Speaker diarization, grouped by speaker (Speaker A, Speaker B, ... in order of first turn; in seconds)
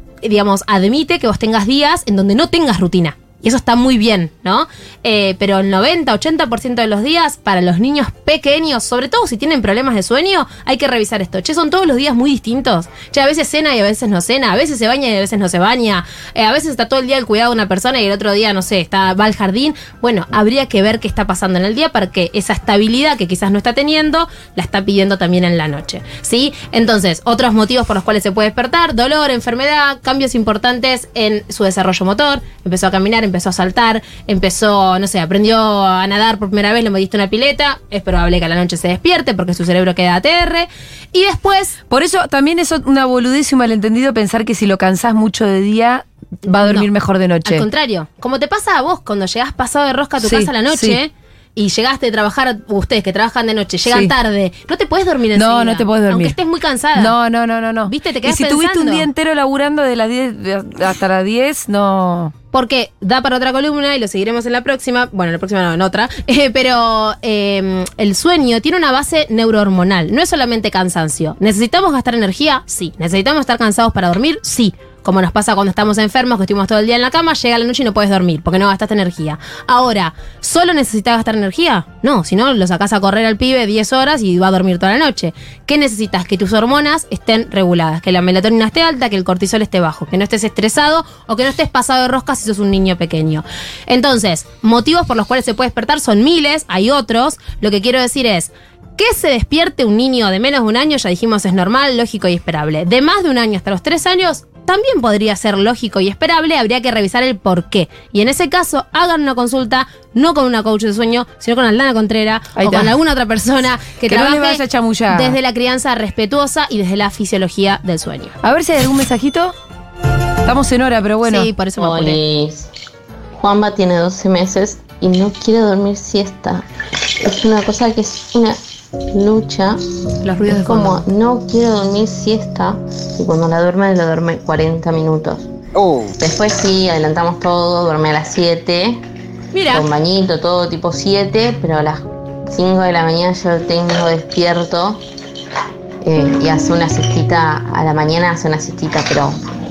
Speaker A: 0.2-41.8, 46.5-46.9, 47.4-57.1, 57.9-59.1, 62.5-118.3, 121.2-122.2, 139.5-139.9
Speaker B: 41.9-47.6, 50.2-51.0, 53.8-54.1, 55.3-56.4, 56.9-62.3, 112.5-113.0, 114.0-115.4, 118.4-119.5, 120.4-121.5, 130.2-131.1
Speaker C: 121.8-122.7, 123.3-126.6, 127.2-128.6, 129.1-129.8, 130.4-135.5, 136.2-139.0, 139.7-145.0, 146.0-149.3